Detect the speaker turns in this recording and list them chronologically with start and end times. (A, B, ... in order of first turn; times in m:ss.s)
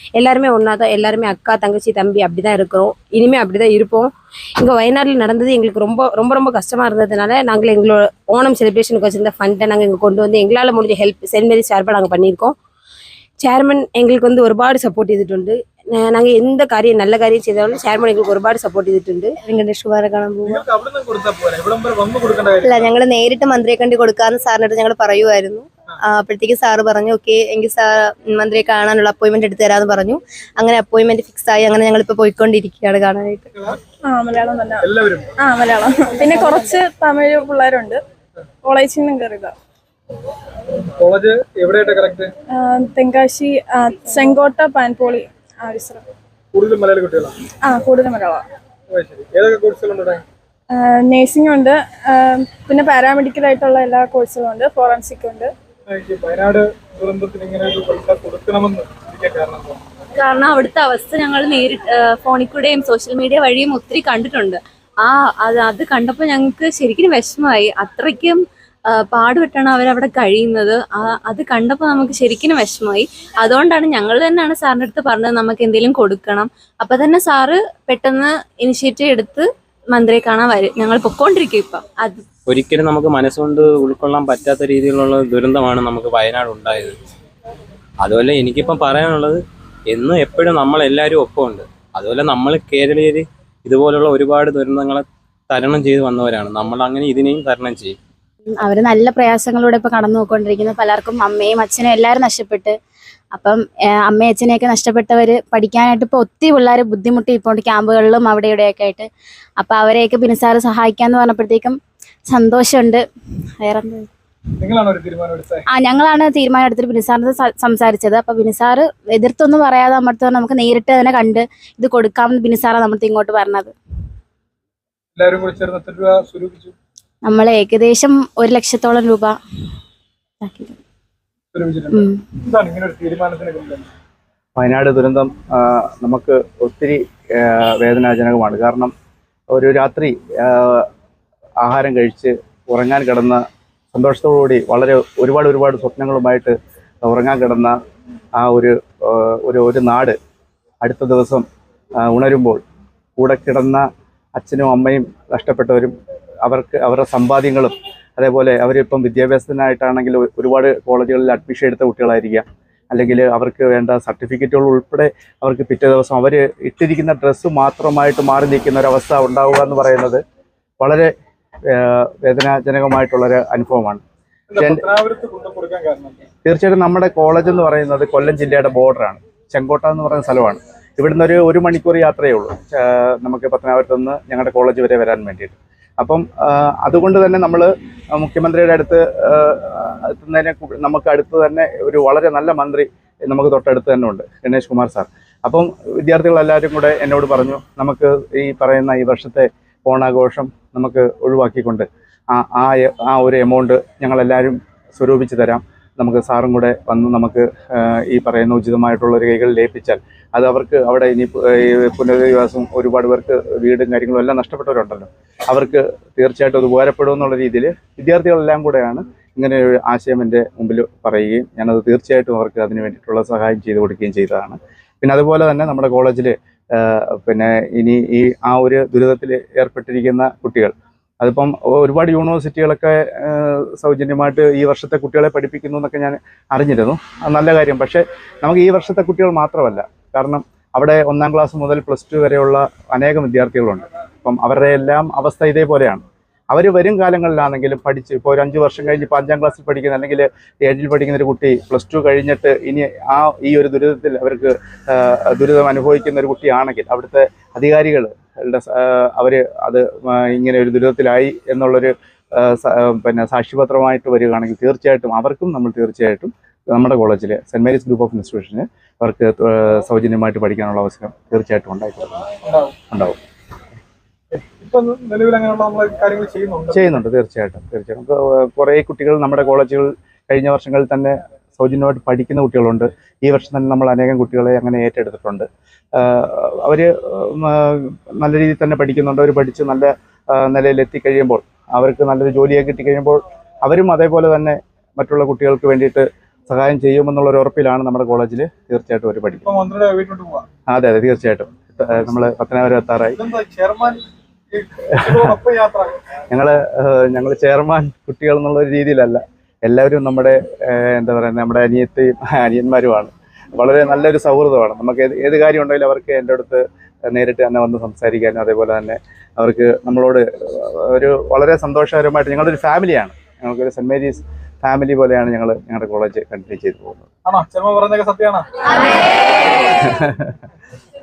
0:00.2-0:12.6 A
0:13.4-0:19.4 A
0:19.4-0:20.6 B
0:20.4-0:23.0 C
0:22.6-0:33.6 B
0:33.5-0:33.8 C
0:34.0-0:34.9 D
0:34.8-0:35.3 C
0:35.4-0:38.0 D
0:38.6-0:39.5 D
0:41.0-0:42.3 C
0:42.5-0:46.0 D
0:46.5-0:47.3 C
0:47.6-0:48.4 D
0:48.9-0:50.2 C
0:50.7-0:55.5 D
0:55.9-0:59.8 C
1:00.2-1:22.2 E
1:22.5-1:27.0 F
1:28.0-1:38.0 F
1:38.6-1:42.8 G
1:43.3-1:53.0 G
1:53.6-1:54.1 G
1:54.6-1:55.6 C
1:55.7-2:03.7 G
2:05.2-2:06.7 C
2:07.2-2:09.4 G
2:10.4-2:10.8 G
2:11.5-2:13.9 C
2:14.6-2:18.9 H
2:19.5-2:20.9 H
2:21.6-2:23.4 H
2:23.9-2:27.8 H
2:28.4-2:30.2 H
2:30.8-2:31.4 H
2:32.0-2:32.6 H
2:33.2-2:50.2 H
2:50.8-2:51.1 H
2:51.7-2:54.0 H
2:54.5-2:56.2 C
2:54.6-2:54.8 H
2:56.4-4:32.3 H
4:32.4-4:32.7 C
4:32.9-4:33.2 H
4:34.3-4:37.0 C
4:36.7-4:59.5 H
4:59.3-5:00.4 C
5:00.7-5:03.2 H
5:03.2-5:06.0 C
5:05.0-5:05.4 H
5:06.3-5:27.1 H
5:27.2-5:28.4 C
5:29.9-5:30.3 H